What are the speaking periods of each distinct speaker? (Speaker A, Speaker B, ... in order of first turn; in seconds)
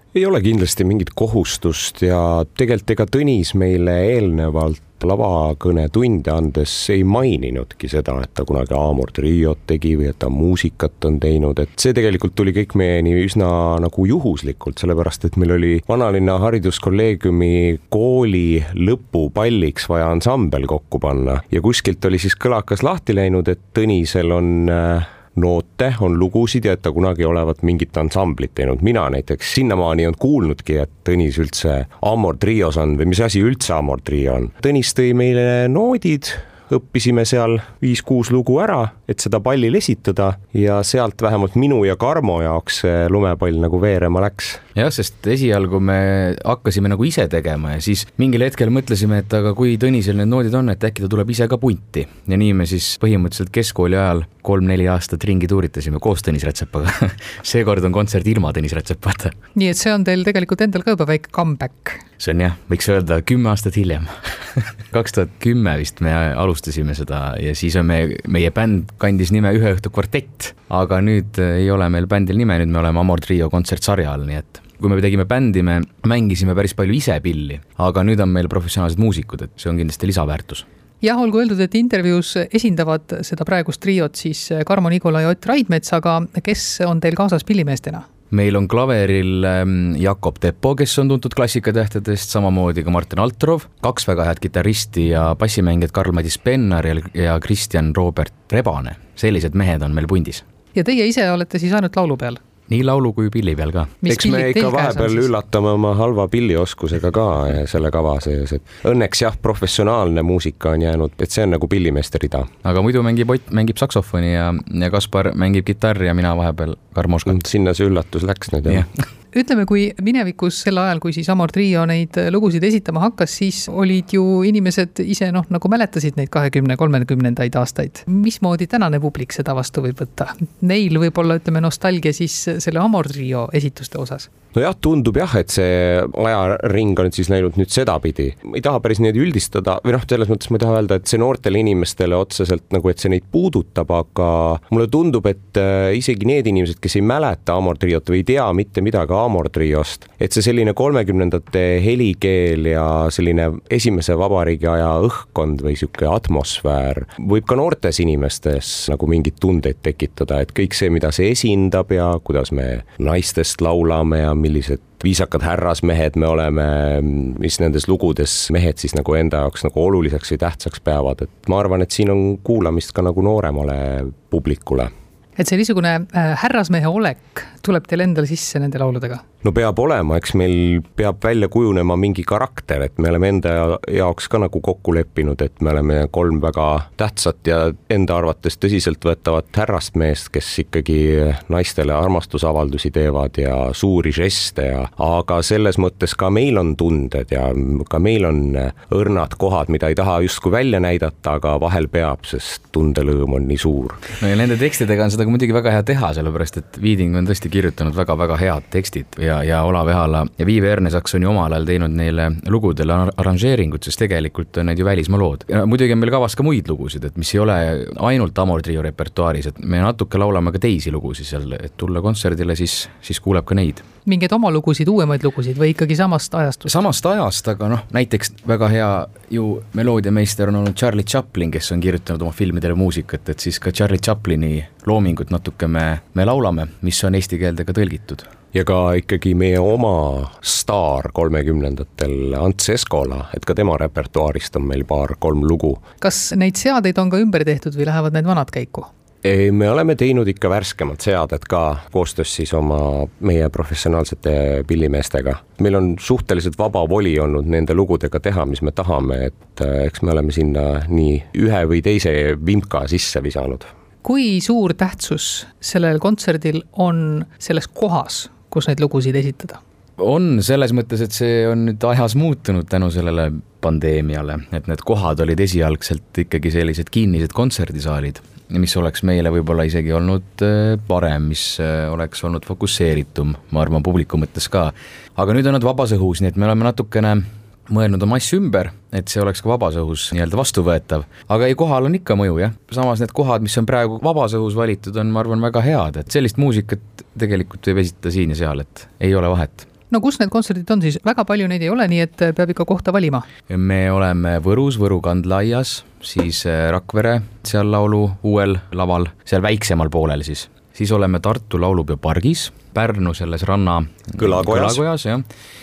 Speaker A: 0.1-44.6, 104.0-112.5, 117.2-118.8, 134.5-174.9, 179.4-204.0, 238.5-245.8, 249.2-263.7, 314.2-314.8
Speaker B: 44.7-59.4, 62.2-80.7, 88.3-100.4, 102.7-104.0, 112.6-117.4, 204.2-223.8, 226.7-238.3, 270.0-299.7, 303.5-315.2
Speaker C: 59.5-62.0, 81.0-88.0, 100.7-102.4, 104.0-105.3, 119.3-134.3, 175.4-179.2, 224.1-226.7, 246.0-248.9, 264.0-269.6, 299.9-303.3